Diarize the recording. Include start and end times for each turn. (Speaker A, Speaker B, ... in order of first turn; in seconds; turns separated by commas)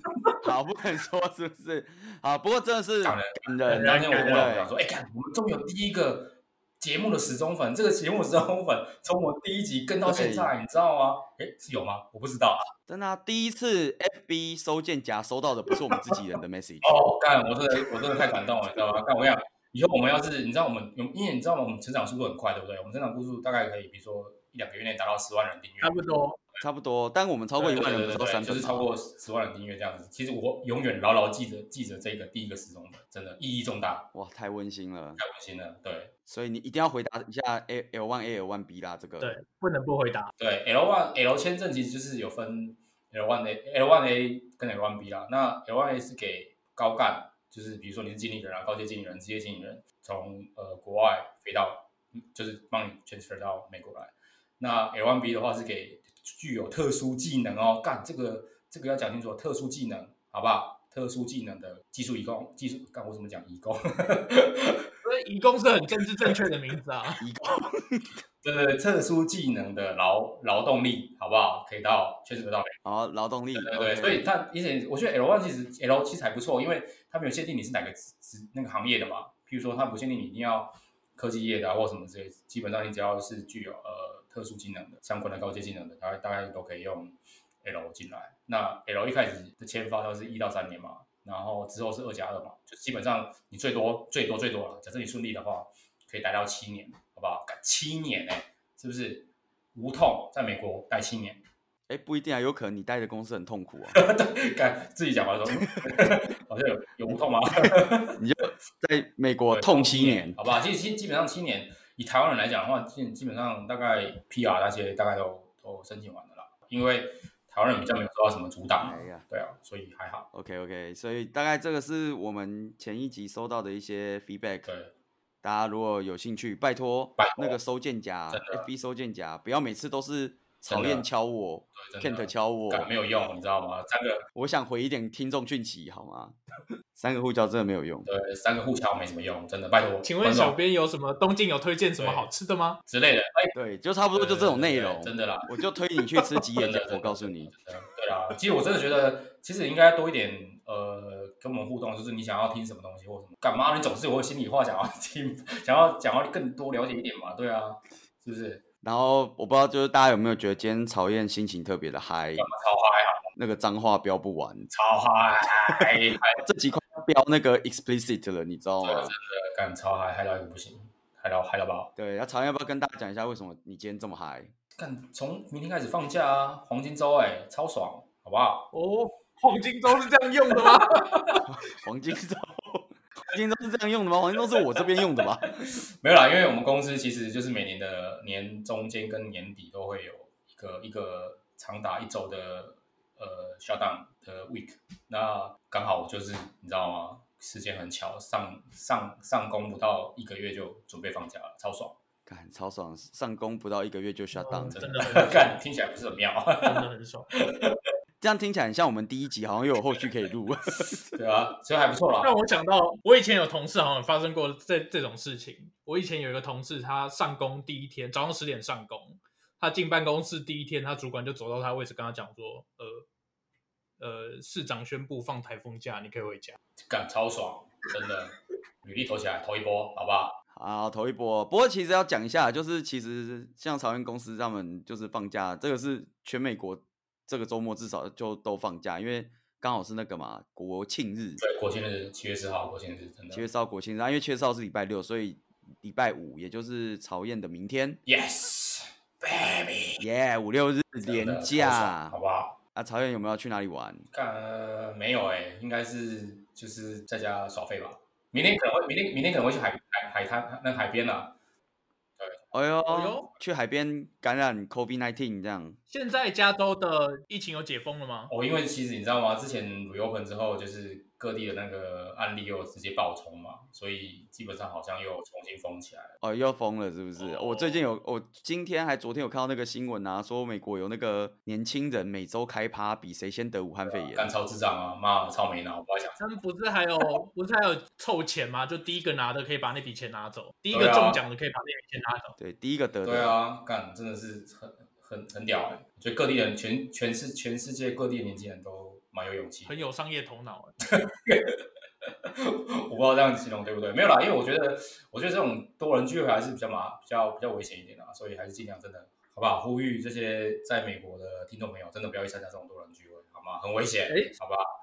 Speaker A: 0.4-4.7, Speaker B: 3.0-12.6, Speaker C: 3.7-4.4, Speaker A: 10.1-10.5, Speaker A: 12.9-17.0, Speaker B: 16.8-26.0, Speaker C: 25.8-26.4, Speaker A: 26.6-28.9, Speaker B: 27.6-34.1, Speaker A: 34.1-35.2, Speaker B: 35.2-36.1, Speaker A: 36.3-39.3, Speaker C: 39.2-40.3, Speaker B: 40.4-64.9, Speaker C: 65.0-67.2, Speaker A: 67.2-68.2, Speaker B: 68.4-72.7, Speaker A: 72.8-74.2, Speaker B: 73.5-101.4, Speaker A: 101.9-104.0, Speaker B: 103.9-108.2, Speaker A: 108.2-110.4, Speaker B: 109.5-120.3, Speaker A: 118.8-119.2, Speaker A: 120.3-124.7, Speaker B: 124.6-124.9, Speaker A: 125.4-132.9, Speaker B: 127.2-127.6, Speaker B: 128.3-128.7, Speaker B: 130.7-131.1, Speaker B: 131.7-134.2, Speaker A: 134.3-136.4, Speaker A: 136.9-138.1, Speaker B: 138.1-140.6, Speaker C: 140.0-142.8, Speaker B: 142.0-142.3, Speaker B: 142.8-143.5, Speaker A: 143.5-147.5, Speaker B: 144.1-145.4, Speaker B: 146.6-158.6, Speaker A: 158.8-162.5, Speaker B: 162.4-163.3, Speaker A: 163.3-164.7, Speaker B: 164.7-166.4, Speaker A: 166.4-169.1, Speaker B: 168.8-171.9, Speaker A: 171.9-174.5, Speaker B: 174.8-178.7, Speaker C: 178.7-181.4, Speaker B: 180.6-181.4, Speaker A: 181.4-185.6, Speaker B: 186.0-201.9, Speaker A: 202.2-204.8, Speaker C: 204.3-205.6, Speaker B: 204.7-207.8, Speaker C: 206.6-207.3, Speaker A: 208.2-211.2, Speaker B: 211.1-212.3, Speaker C: 212.2-223.0, Speaker C: 224.0-226.6, Speaker B: 226.9-230.3, Speaker A: 230.5-241.4, Speaker B: 241.4-243.4, Speaker A: 243.3-248.0, Speaker B: 248.1-250.0, Speaker A: 250.0-252.2, Speaker B: 251.0-252.6, Speaker A: 252.7-254.1, Speaker B: 254.1-261.3, Speaker A: 262.5-265.8, Speaker C: 262.9-263.3, Speaker C: 265.9-268.3, Speaker B: 268.3-276.1, Speaker A: 276.2-284.3, Speaker B: 283.9-286.2, Speaker C: 286.2-292.4, Speaker B: 290.7-291.2, Speaker A: 292.4-293.3, Speaker B: 293.0-299.7, Speaker C: 299.6-300.7, Speaker B: 300.9-301.6, Speaker B: 302.2-314.6